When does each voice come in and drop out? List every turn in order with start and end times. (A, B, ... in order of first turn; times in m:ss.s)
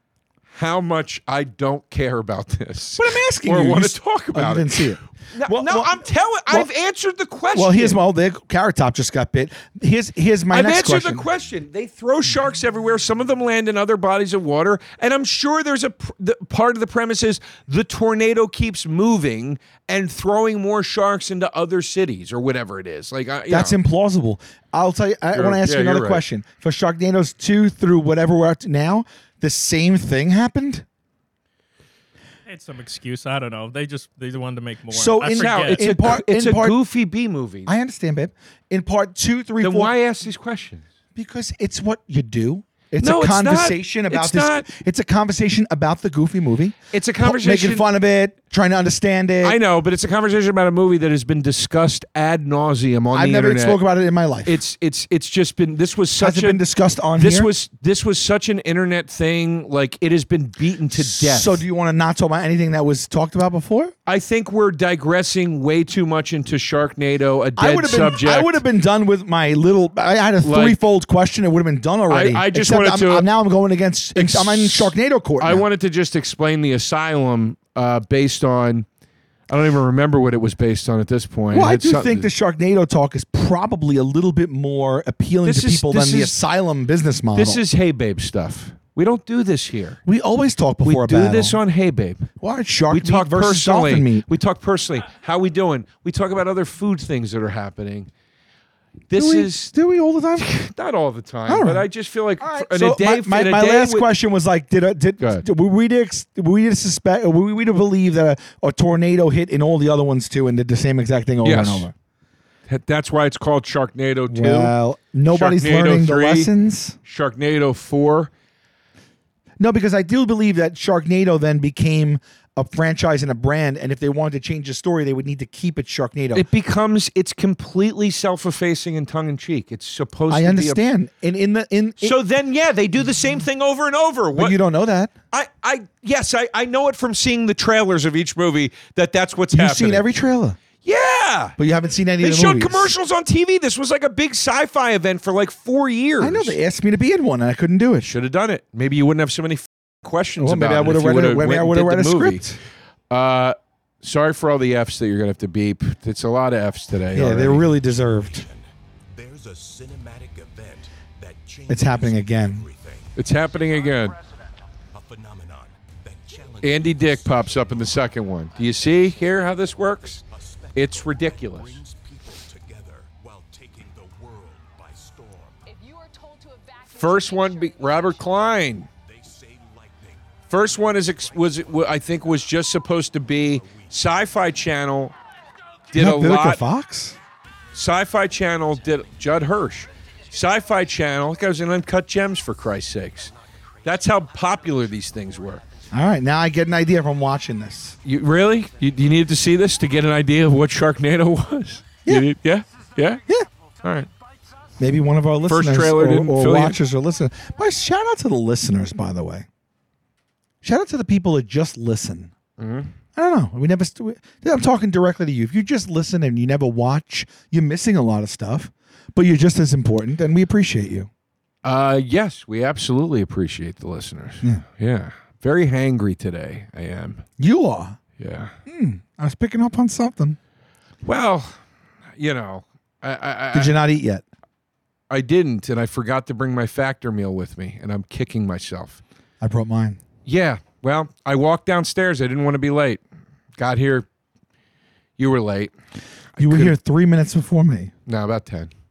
0:00.5-0:08.0 A
0:03.0-0:06.7 B
0:07.5-0:11.2 B
0:10.5-0:23.8 A
0:23.5-0:30.8 B
0:25.3-0:26.2 A
0:32.5-0:35.8 C
0:34.9-0:36.8 B
0:35.3-0:37.7 A
0:37.6-0:39.9 B
0:39.6-0:40.8 A
0:41.1-0:49.6 B
0:43.0-0:44.7 A
0:46.9-0:47.9 A
0:49.4-0:53.8 A
0:53.1-0:54.6 B
0:54.4-0:56.6 A
0:56.2-0:57.5 B
0:57.1-1:01.6 A
1:00.9-1:03.9 B
1:04.1-1:08.6 A
1:07.6-1:15.6 B
1:10.4-1:10.8 A
1:12.1-1:13.3 A
1:14.1-1:18.8 A
1:19.5-1:22.3 A
1:21.5-1:27.6 B
1:25.4-1:26.4 A
1:27.3-1:30.0 A
1:30.0-1:31.6 B
1:30.8-1:32.3 A
1:32.4-1:34.3 B
1:32.9-1:38.1 A
1:39.1-1:39.7 A
1:39.1-1:40.5 B
1:40.4-1:44.1 A
1:41.5-1:41.8 B
1:42.4-1:51.9 B
1:45.2-1:45.4 A
1:51.4-1:51.9 A
1:52.7-1:54.7 A
1:54.3-1:57.0 B
1:55.3-1:56.5 A
1:57.0-1:58.3 A
1:59.6-2:06.5 B
2:06.3-2:10.8 A
2:10.3-2:12.2 B
2:12.0-2:14.6 A
2:14.3-2:15.1 B
2:15.3-2:20.0 A
2:19.5-2:20.6 B
2:20.8-2:21.6 A
2:21.6-2:22.9 B
2:22.2-2:26.6 A
2:26.2-2:28.1 B
2:28.0-2:32.4 A
2:30.4-2:32.6 B
2:33.1-2:37.8 A
2:37.1-2:38.5 B
2:37.9-2:43.1 D
2:41.7-2:42.7 B
2:43.2-2:44.2 A
2:44.9-2:55.6 D
2:46.6-2:50.2 A
2:50.7-2:51.8 A
2:55.6-2:58.5 E
2:56.9-2:58.9 A
2:59.0-3:00.3 D
3:00.5-3:05.1 A
3:00.8-3:01.7 D
3:03.6-3:03.9 D
3:05.9-3:06.6 A
3:05.9-3:07.2 B
3:07.7-3:13.3 A
3:13.8-3:15.6 A
3:15.9-3:18.0 B
3:18.0-3:23.2 A
3:23.8-3:24.1 A
3:24.8-3:29.4 B
3:25.5-3:26.8 A
3:30.6-3:32.3 B
3:32.6-3:32.9 A
3:33.1-3:41.1 B
3:41.6-3:47.2 A
3:47.4-3:48.0 B
3:48.2-3:48.5 A
3:48.6-3:50.4 B
3:51.0-3:51.6 A
3:52.2-3:53.8 A
3:53.5-3:54.2 B
3:55.1-3:59.0 A
3:59.4-4:00.0 B
4:00.2-4:03.0 A
4:03.6-4:04.1 A
4:05.2-4:05.7 A
4:06.4-4:06.8 A
4:06.4-4:07.9 B
4:08.0-4:08.7 A